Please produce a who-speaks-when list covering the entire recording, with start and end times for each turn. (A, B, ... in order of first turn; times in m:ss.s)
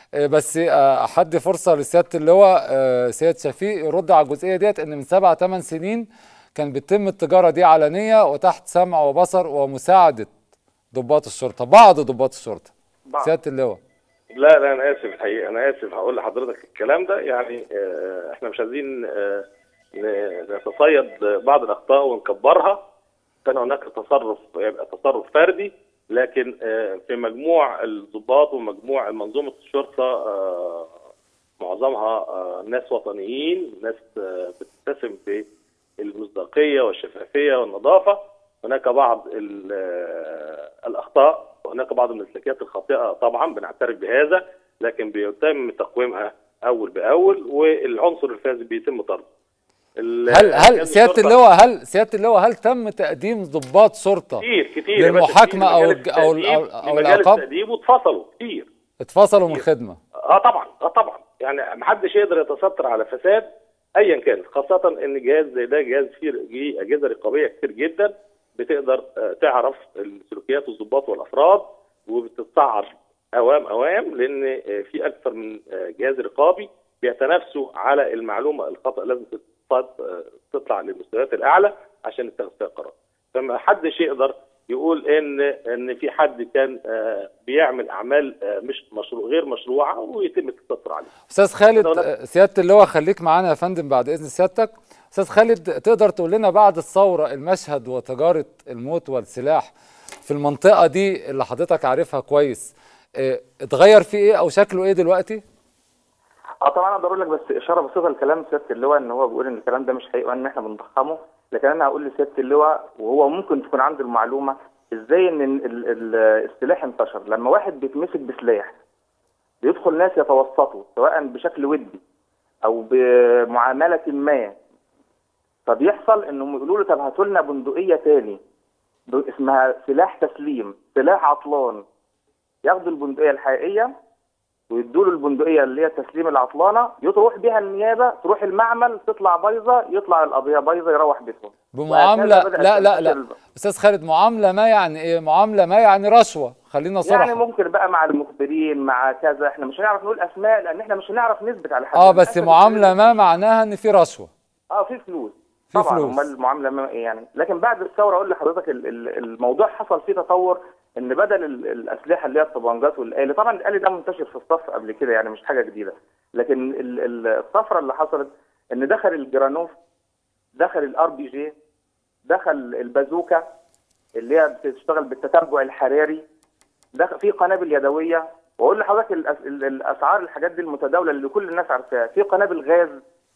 0:00.2-0:10.3 A
0:10.9-0:12.7 A
0:13.1-0:13.3 B
0:13.2-0:13.8 A
0:14.4-0:22.8 C
0:23.4-0:31.0 C
0:31.6-0:35.5 C
0:36.0-0:49.3 C
0:50.0-0:51.4 C
0:50.3-0:54.4 A
0:54.4-0:58.7 C
0:55.0-0:57.4 A
0:59.0-1:00.0 A
1:00.3-1:03.5 C
1:04.0-1:31.1 C
1:31.3-1:39.7 A
1:31.7-1:32.1 C
1:40.2-1:45.4 A
1:46.6-1:58.8 B
1:59.6-2:02.0 B
2:02.6-2:04.6 B
2:05.7-2:08.4 B
2:09.1-2:11.8 B
2:12.7-2:13.9 B
2:14.7-2:23.4 B
2:21.7-2:27.4 A
2:27.0-2:33.2 B
2:32.0-2:34.3 A
2:34.7-2:49.8 B
2:35.7-2:36.2 A
2:50.6-2:51.5 B
2:52.3-2:53.4 B
2:54.2-2:56.2 B
2:57.0-3:03.0 B